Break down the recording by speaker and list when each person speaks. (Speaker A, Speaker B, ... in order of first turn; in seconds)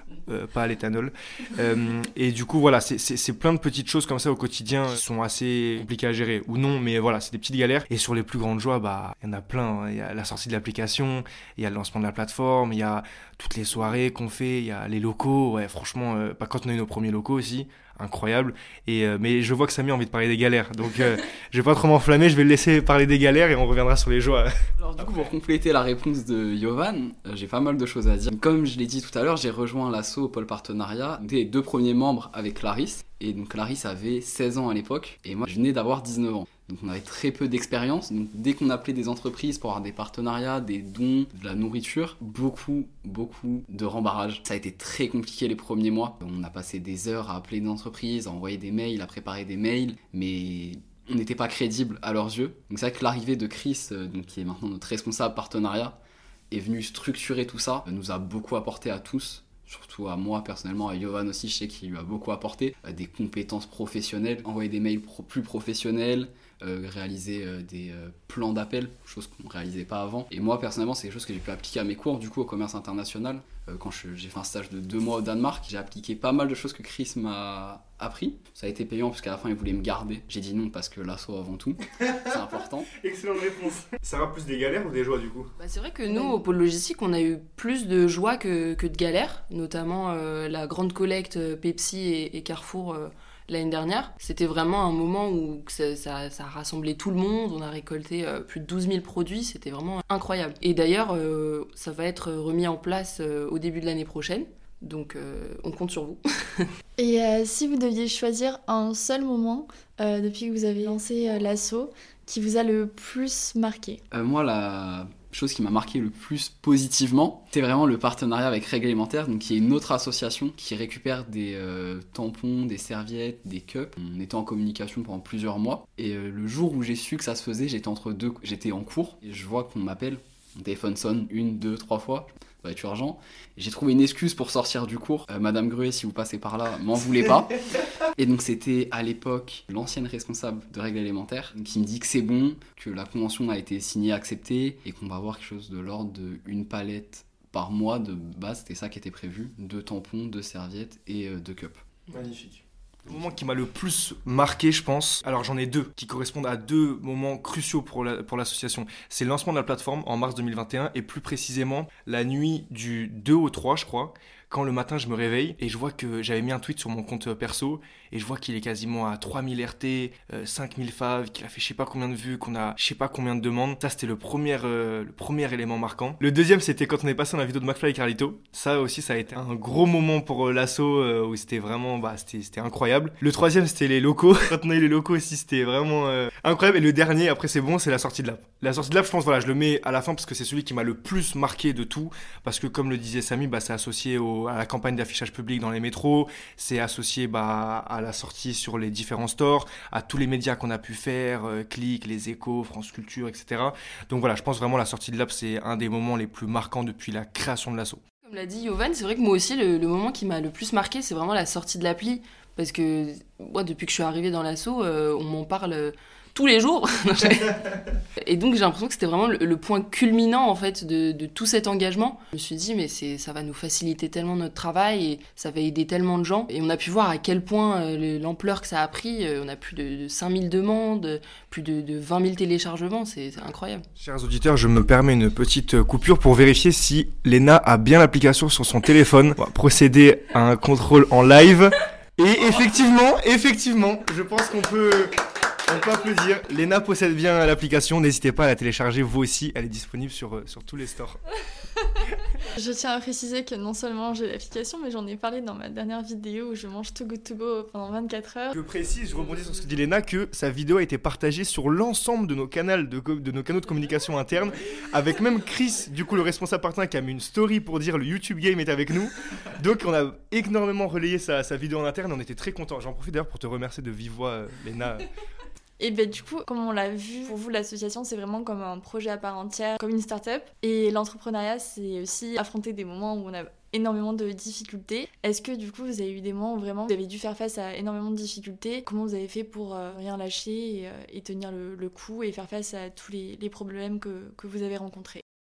Speaker A: 0.3-25.3, 83.0-85.5, 152.1-208.0, 234.0-251.2, 258.5-275.1
Speaker B: 24.8-56.0, 56.5-82.9, 114.1-151.8
Speaker C: 85.6-106.7, 208.2-233.9
Speaker D: 107.0-114.0, 252.5-258.6, 275.8-295.2